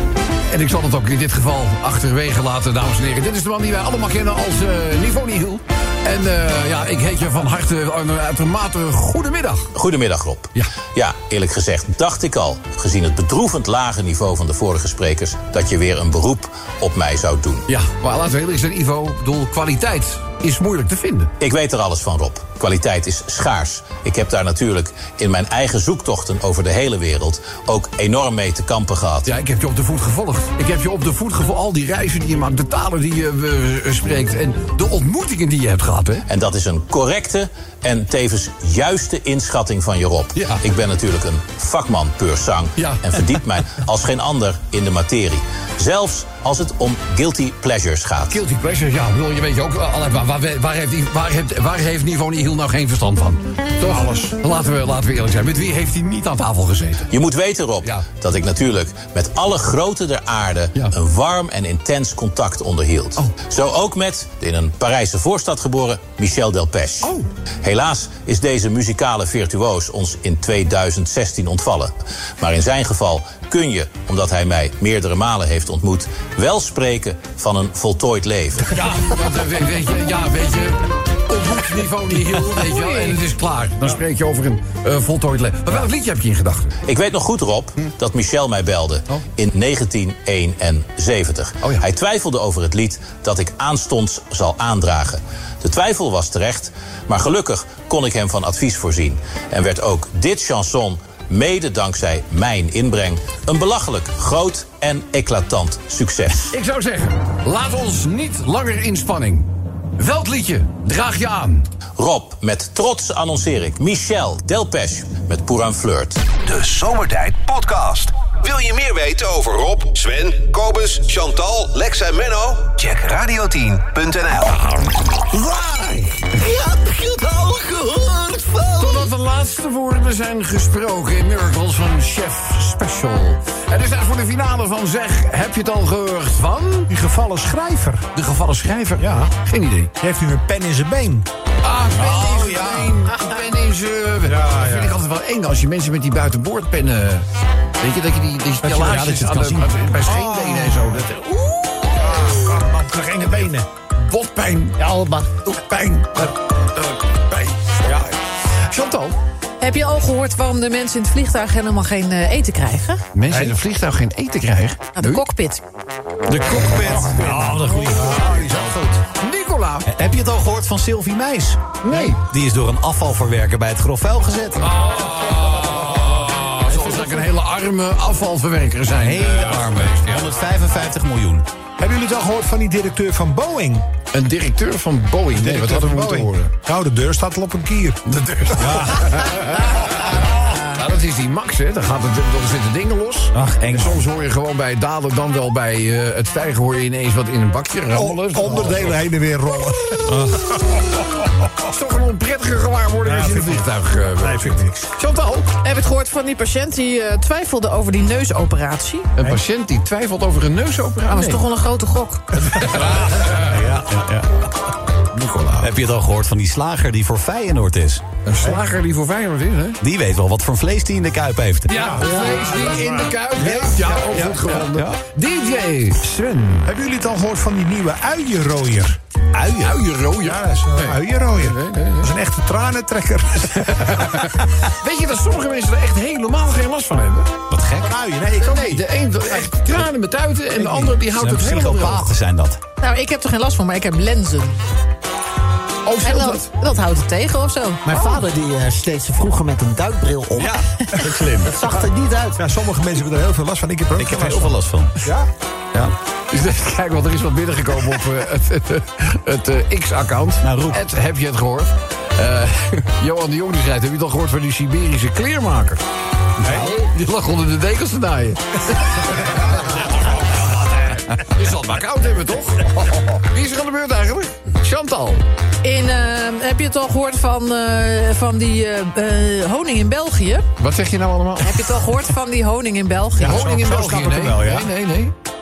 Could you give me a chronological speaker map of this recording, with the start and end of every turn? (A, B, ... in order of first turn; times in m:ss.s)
0:00.5-0:09.7 A
0:09.7-0:17.7 B
0:17.7-0:21.3 A
0:21.4-0:29.3 B
0:29.2-0:36.2 A
0:36.3-0:48.4 B
0:40.3-0:40.6 A
0:42.8-0:43.0 A
0:48.3-0:57.1 A
0:53.9-0:54.3 C
0:57.1-1:18.8 B
1:18.7-1:26.7 A
1:26.8-1:46.5 B
1:46.4-1:51.6 A
1:52.0-1:56.2 B
1:56.4-2:04.6 D
2:05.3-2:06.2 E
2:06.3-2:09.0 F
2:08.8-2:16.9 A
2:16.9-2:18.1 C
2:18.1-2:19.9 A
2:19.0-2:19.3 C
2:20.0-2:21.3 C
2:21.6-2:27.3 A
2:22.0-2:22.8 E
2:22.3-2:22.8 C
2:24.2-2:25.0 C
2:27.8-2:31.7 A
2:28.6-2:31.0 C
2:28.8-2:29.5 E
2:31.9-2:33.7 C
2:34.0-2:34.8 A
2:34.8-2:35.3 F
2:35.4-2:38.1 A
2:38.7-2:39.2 A
2:39.6-2:43.0 G
2:43.1-2:45.2 A
2:45.0-2:45.6 G
2:46.3-2:48.6 E
2:46.7-2:49.0 C
2:49.2-2:49.8 A
2:49.9-2:54.6 E
2:51.8-2:52.2 A
2:54.6-3:00.2 A
2:59.0-3:01.4 E
3:01.8-3:03.8 C
3:04.1-3:06.5 A
3:05.3-3:09.3 C
3:08.0-3:19.0 A
3:13.3-3:14.0 E
3:17.9-3:21.5 C
3:20.1-3:20.4 E
3:21.7-3:25.5 A
3:23.0-3:24.8 C
3:25.6-3:29.1 G
3:29.1-3:31.4 A
3:31.1-3:32.3 G
3:32.4-3:33.5 A
3:32.5-3:33.8 C
3:32.6-3:34.3 E
3:35.1-3:35.7 A
3:35.6-3:38.0 E
3:38.2-3:39.8 A
3:39.8-3:42.0 E
3:41.7-3:46.7 A
3:41.7-3:44.7 C
3:46.6-3:49.0 C
3:49.3-3:49.8 E
3:49.6-3:52.1 A
3:50.2-3:54.4 C
3:53.5-3:57.3 A
3:57.5-3:58.0 E
3:57.8-3:58.9 C
3:58.4-4:02.1 A
4:00.6-4:02.6 E
4:02.8-4:04.6 G
4:05.8-4:06.5 A
4:06.0-4:08.2 G
4:07.8-4:10.6 F
4:10.3-4:11.5 E
4:11.4-4:12.4 F
4:12.4-4:15.3 C
4:14.0-4:15.0 E
4:16.3-4:25.8 A
4:20.4-4:20.8 E
4:26.4-4:26.7 E
4:26.4-4:26.7 C
4:26.6-4:35.2 A
4:35.6-4:40.5 G
4:40.6-4:41.7 A
4:41.4-4:43.5 G
4:43.2-4:44.7 C
4:43.2-4:45.1 A